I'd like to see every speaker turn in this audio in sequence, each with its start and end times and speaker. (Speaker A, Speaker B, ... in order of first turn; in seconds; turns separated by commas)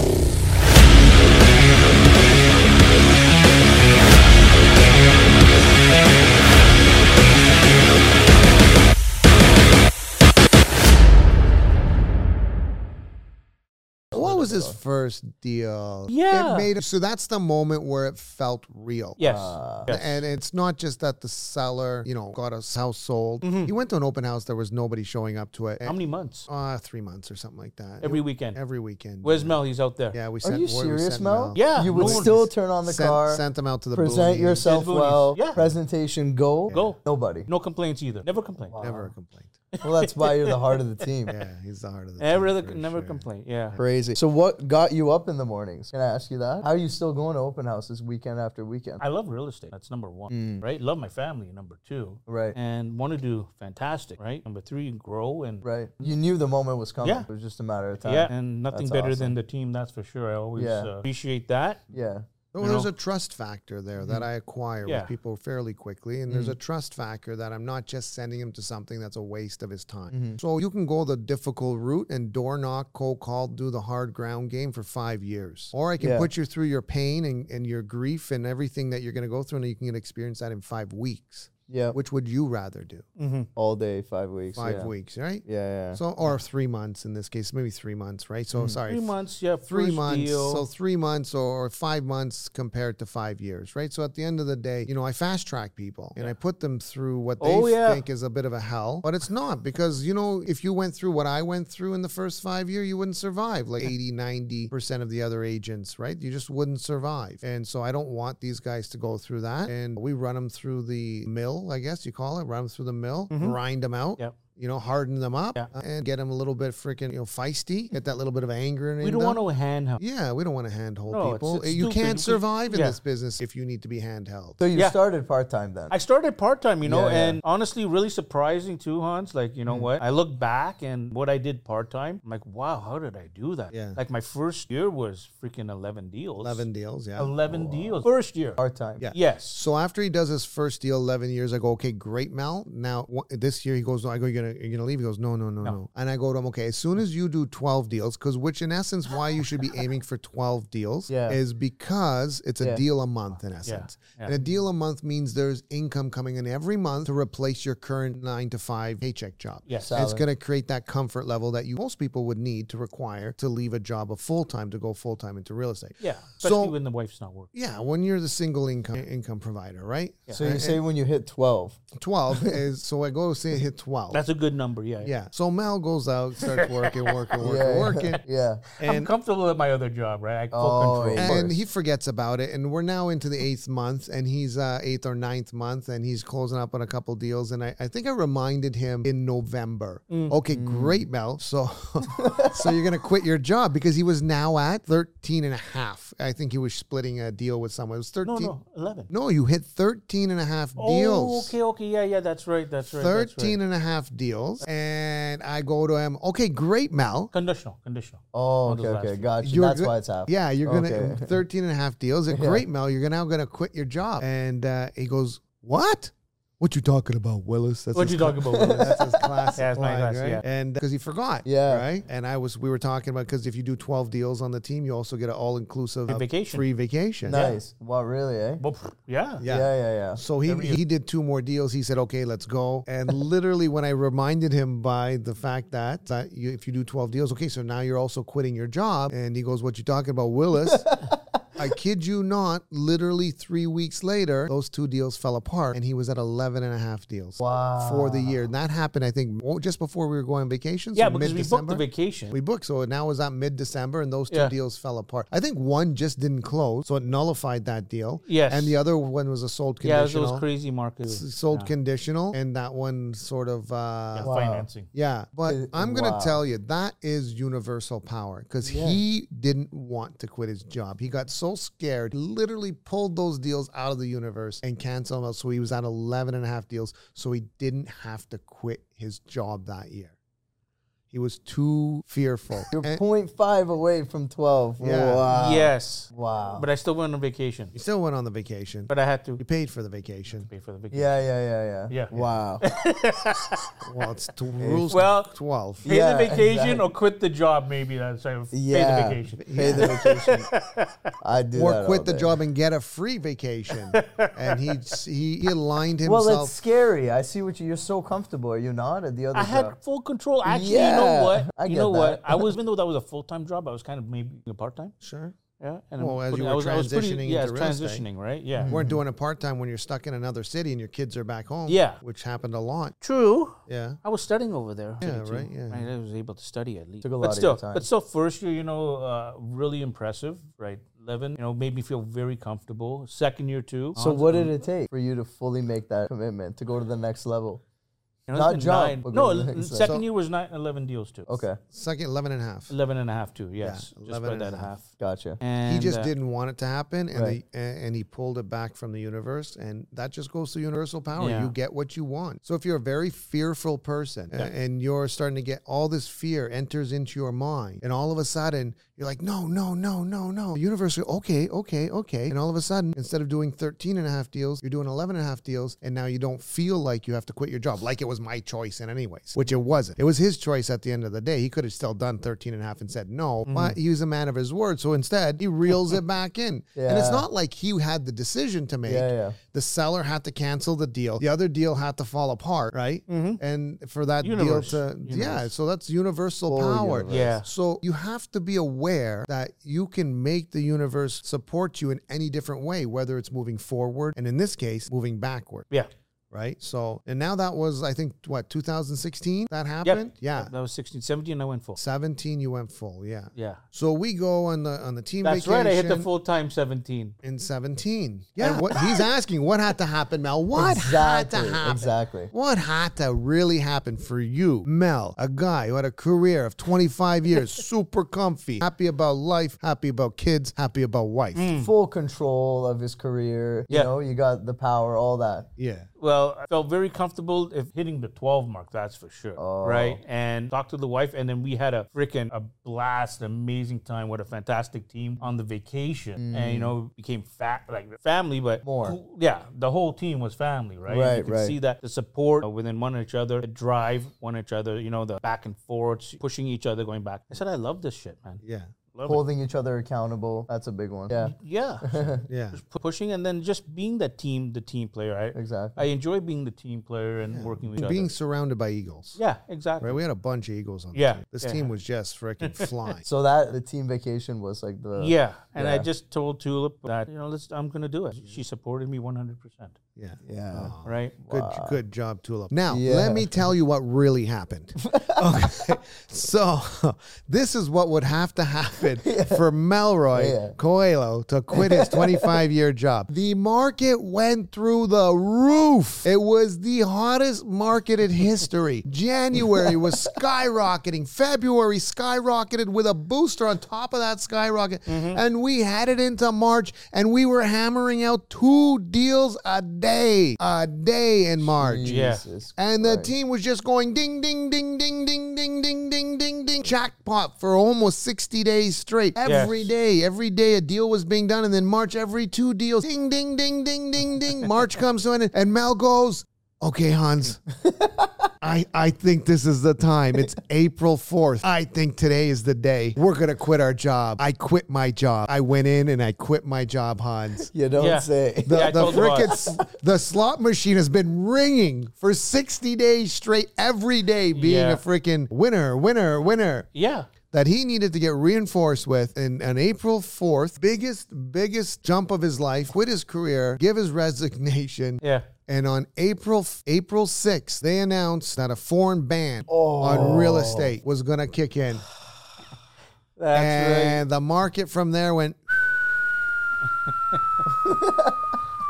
Speaker A: 14.1-14.8, Speaker B: 14.1-19.2, Speaker C: 16.1-16.7, Speaker C: 19.2-20.2, Speaker A: 19.2-19.9, Speaker B: 19.8-26.0, Speaker C: 23.4-23.7, Speaker C: 25.8-26.5, Speaker B: 26.5-34.7, Speaker C: 28.0-28.6, Speaker C: 29.2-30.2, Speaker A: 30.4-37.5, Speaker C: 31.5-32.4, Speaker C: 34.6-35.6, Speaker B: 35.5-35.8, Speaker B: 36.7-37.0, Speaker C: 36.7-38.8, Speaker A: 38.6-39.1, Speaker B: 38.8-39.6, Speaker C: 39.7-40.6, Speaker A: 39.8-41.3, Speaker B: 41.3-43.3, Speaker C: 42.2-43.8, Speaker A: 43.7-49.0, Speaker C: 49.0-55.6, Speaker A: 50.3-50.6, Speaker A: 52.2-52.5, Speaker A: 55.6-59.4, Speaker C: 57.0-57.3, Speaker C: 58.0-61.8, Speaker A: 60.5-60.9, Speaker A: 61.9-62.2, Speaker B: 62.5-83.0, Speaker C: 62.6-62.9, Speaker C: 64.8-65.1, Speaker A: 66.3-66.6, Speaker A: 70.1-70.4, Speaker A: 76.0-76.3, Speaker A: 81.7-82.0, Speaker C: 83.2-83.5, Speaker A: 83.5-84.9, Speaker B: 84.5-89.2, Speaker A: 85.4-86.0, Speaker A: 88.5-88.8, Speaker C: 88.9-90.7, Speaker B: 89.7-119.4, Speaker C: 97.4-98.0, Speaker C: 113.3-113.6, Speaker C: 119.0-120.0, Speaker B: 120.0-124.6, Speaker C: 121.1-123.0, Speaker A: 124.6-126.0, Speaker C: 125.9-136.7, Speaker A: 126.8-127.4, Speaker B: 129.7-129.9, Speaker B: 133.7-134.0, Speaker B: 136.4-138.1, Speaker C: 137.2-139.6, Speaker A: 138.6-139.1, Speaker B: 139.0-166.7, Speaker A: 151.1-151.4, Speaker C: 153.6-154.3, Speaker C: 159.7-160.0, Speaker A: 159.8-160.2, Speaker C: 166.0-167.5, Speaker B: 167.5-170.8, Speaker A: 170.3-172.6, Speaker B: 171.9-174.2, Speaker C: 174.1-175.1, Speaker B: 175.0-178.2, Speaker C: 176.4-177.6, Speaker A: 177.4-178.6, Speaker B: 178.8-179.1, Speaker C: 178.8-181.5, Speaker A: 180.5-181.6, Speaker B: 181.2-198.6, Speaker C: 190.1-190.3, Speaker A: 190.5-191.1, Speaker A: 192.1-192.8, Speaker C: 198.2-199.1, Speaker B: 199.1-201.6, Speaker C: 200.8-203.6, Speaker B: 202.8-207.3, Speaker C: 207.3-209.3, Speaker A: 208.3-211.4, Speaker B: 209.4-227.4, Speaker A: 212.3-212.7, Speaker C: 217.9-218.9, Speaker A: 218.3-219.6, Speaker C: 219.6-220.4, Speaker A: 221.4-221.9, Speaker C: 226.1-226.7, Speaker A: 227.2-228.6, Speaker C: 227.3-227.6, Speaker C: 228.6-229.4, Speaker B: 229.4-240.9, Speaker A: 229.4-230.2, Speaker C: 230.4-230.8, Speaker A: 240.7-241.2, Speaker B: 241.6-260.5, Speaker A: 247.4-248.5, Speaker C: 250.9-252.3, Speaker C: 254.3-254.5, Speaker C: 258.2-258.8, Speaker C: 259.8-261.7, Speaker B: 261.0-264.3, Speaker C: 264.1-264.9, Speaker A: 264.2-264.7, Speaker B: 264.9-280.1, Speaker A: 265.4-266.4, Speaker A: 268.6-269.0, Speaker B: 281.1-283.0, Speaker A: 282.7-286.7, Speaker B: 284.8-285.3, Speaker C: 285.2-287.7, Speaker B: 287.7-290.5, Speaker C: 288.9-289.4, Speaker C: 290.3-291.2, Speaker A: 290.9-292.6, Speaker C: 291.9-293.6, Speaker B: 293.8-295.9, Speaker A: 294.6-294.9, Speaker C: 294.9-295.3, Speaker C: 295.8-300.9, Speaker A: 295.8-296.9, Speaker A: 298.5-300.5, Speaker B: 299.4-300.2, Speaker A: 301.2-302.4, Speaker B: 301.5-306.5, Speaker C: 303.9-304.6, Speaker A: 306.0-309.7, Speaker C: 309.3-314.9, Speaker A: 310.4-312.5, Speaker B: 315.0-315.4, Speaker C: 315.6-318.8, Speaker B: 316.0-318.1, Speaker A: 318.6-319.0, Speaker B: 318.6-323.0, Speaker C: 321.7-322.0, Speaker C: 323.0-334.6, Speaker B: 323.7-324.0, Speaker B: 325.0-325.9, Speaker A: 327.0-327.9, Speaker A: 333.9-337.6, Speaker C: 338.3-341.4, Speaker A: 338.3-339.9, Speaker A: 341.3-341.6, Speaker B: 341.7-342.7, Speaker C: 342.7-344.9, Speaker B: 343.6-344.8, Speaker A: 345.0-345.4, Speaker C: 345.4-346.1, Speaker B: 345.6-395.7, Speaker A: 347.1-347.4, Speaker C: 351.1-351.5, Speaker C: 373.4-373.8, Speaker A: 376.8-377.3, Speaker A: 378.8-379.4, Speaker C: 383.1-383.4, Speaker C: 384.2-385.5, Speaker A: 386.5-387.4, Speaker C: 387.1-387.5, Speaker B: 396.3-400.5, Speaker C: 399.8-401.8, Speaker B: 401.8-406.1, Speaker C: 403.3-403.6, Speaker C: 405.2-407.1, Speaker B: 407.2-421.5, Speaker C: 408.4-409.0, Speaker A: 410.5-412.3, Speaker C: 421.3-421.7, Speaker A: 421.5-425.5, Speaker B: 425.6-425.9, Speaker C: 426.0-448.4, Speaker A: 429.4-430.0, Speaker A: 436.1-436.7, Speaker A: 438.6-439.0, Speaker A: 440.9-441.6, Speaker B: 448.4-448.7, Speaker C: 448.9-449.2, Speaker A: 449.1-451.3, Speaker C: 451.1-458.1, Speaker A: 451.9-452.2, Speaker B: 452.3-452.6, Speaker A: 455.3-455.8, Speaker B: 457.2-459.2, Speaker C: 459.1-460.0, Speaker B: 459.8-463.0, Speaker C: 460.9-461.7, Speaker A: 463.0-465.9, Speaker C: 465.0-469.8, Speaker B: 470.0-517.4, Speaker A: 470.2-470.7, Speaker C: 470.8-471.1, Speaker A: 471.3-471.8, Speaker A: 472.7-473.5, Speaker A: 474.8-475.6, Speaker A: 479.0-479.4, Speaker A: 480.1-480.5, Speaker A: 481.5-482.4, Speaker A: 489.3-489.9, Speaker C: 494.9-495.2, Speaker A: 501.4-503.1, Speaker C: 501.8-502.2, Speaker C: 509.2-509.7, Speaker A: 517.6-518.1, Speaker B: 518.4-527.5, Speaker A: 527.4-529.6, Speaker C: 527.8-529.4, Speaker B: 528.5-536.7, Speaker C: 534.3-534.8, Speaker C: 536.7-537.1, Speaker B: 537.3-551.9, Speaker C: 545.0-545.2, Speaker A: 549.5-550.7, Speaker C: 553.1-554.0, Speaker B: 553.3-555.6, Speaker A: 557.6-558.1